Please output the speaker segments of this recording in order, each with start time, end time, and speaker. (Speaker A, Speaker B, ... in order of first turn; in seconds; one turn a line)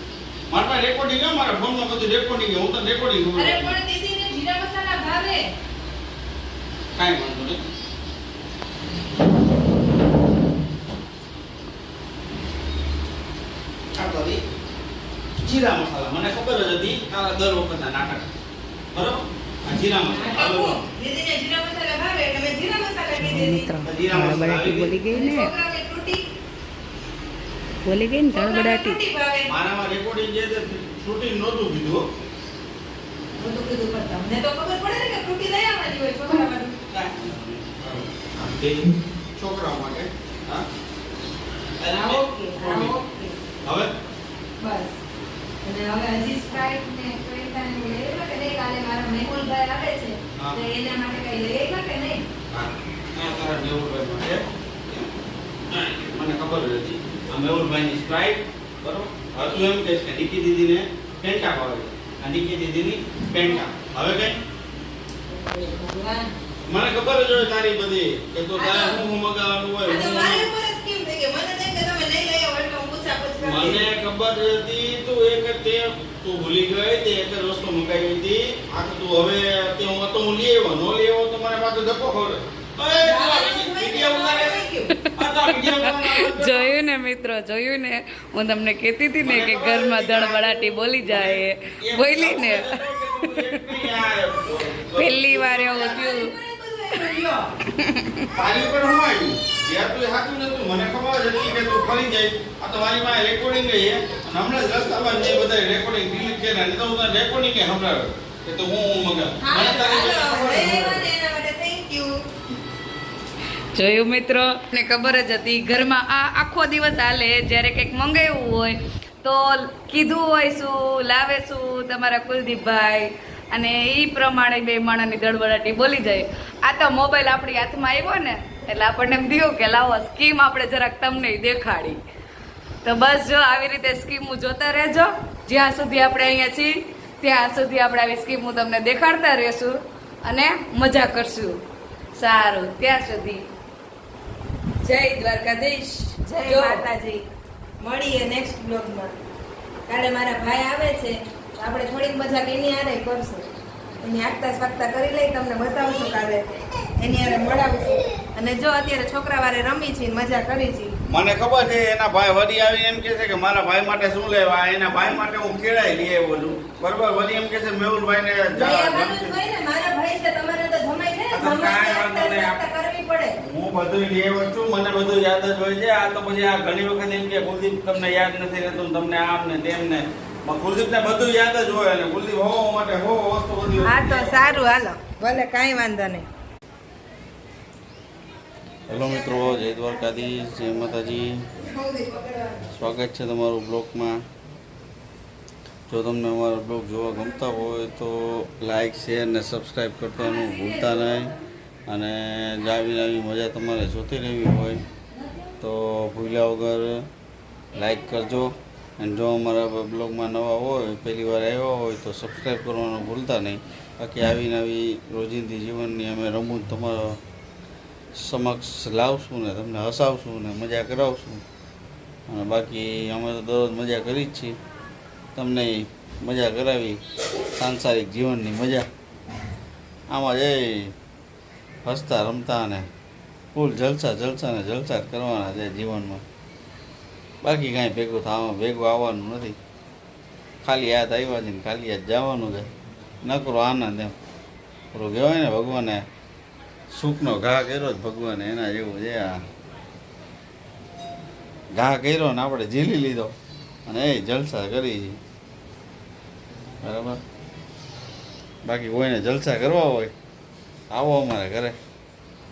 Speaker A: 0.5-3.8
Speaker B: 3.3-5.5
Speaker A: 7.0-7.6
Speaker A: 13.9-14.4
Speaker A: 15.4-18.3
Speaker A: 18.9-20.8
Speaker B: 20.1-23.7
Speaker C: 23.2-25.5
Speaker A: 23.8-24.9
Speaker B: 25.0-26.2
Speaker C: 27.8-29.0
Speaker B: 28.3-29.5
Speaker A: 29.5-32.0
Speaker B: 33.4-36.8
Speaker A: 36.9-40.6
Speaker A: 41.8-42.9
Speaker B: 41.9-43.4
Speaker A: 43.6-43.9
Speaker B: 44.6-45.0
Speaker B: 45.6-52.2
Speaker A: 52.5-55.1
Speaker A: 55.7-64.4
Speaker B: 65.3-66.3
Speaker A: 66.7-70.5
Speaker B: 68.5-69.0
Speaker B: 69.8-73.9
Speaker A: 73.4-84.6
Speaker B: 83.0-84.9
Speaker C: 85.0-93.9
Speaker A: 85.1-86.8
Speaker A: 89.2-96.0
Speaker C: 94.9-96.3
Speaker B: 95.6-97.5
Speaker C: 97.7-98.3
Speaker A: 98.3-111.0
Speaker B: 109.4-112.2
Speaker C: 113.7-132.0
Speaker C: 132.8-141.6
Speaker C: 142.2-143.4
Speaker C: 144.8-146.8
Speaker B: 146.2-147.2
Speaker B: 147.8-149.1
Speaker B: 149.9-153.5
Speaker B: 154.0-156.4
Speaker B: 157.0-160.9
Speaker A: 161.1-169.3
Speaker B: 168.5-173.3
Speaker A: 171.3-172.6
Speaker A: 173.4-184.6
Speaker B: 183.8-186.2
Speaker A: 188.9-191.4
Speaker B: 191.6-192.9
Speaker A: 192.7-194.2
Speaker A: 195.9-201.3
Speaker C: 200.6-200.9
Speaker A: 201.9-204.8
Speaker A: 205.6-207.0
Speaker A: 207.7-217.2
Speaker A: 218.2-221.4
Speaker A: 222.3-224.6
Speaker A: 225.3-227.0
Speaker A: 227.5-228.8
Speaker A: 230.1-230.9
Speaker A: 231.8-232.8
Speaker A: 233.5-236.2
Speaker A: 237.4-239.6
Speaker A: 240.6-242.7
Speaker A: 243.2-244.1
Speaker A: 244.9-246.0
Speaker A: 246.9-249.4
Speaker A: 251.7-253.3
Speaker A: 253.9-255.2
Speaker A: 256.8-257.2
Speaker A: 258.6-260.1
Speaker A: 260.9-261.7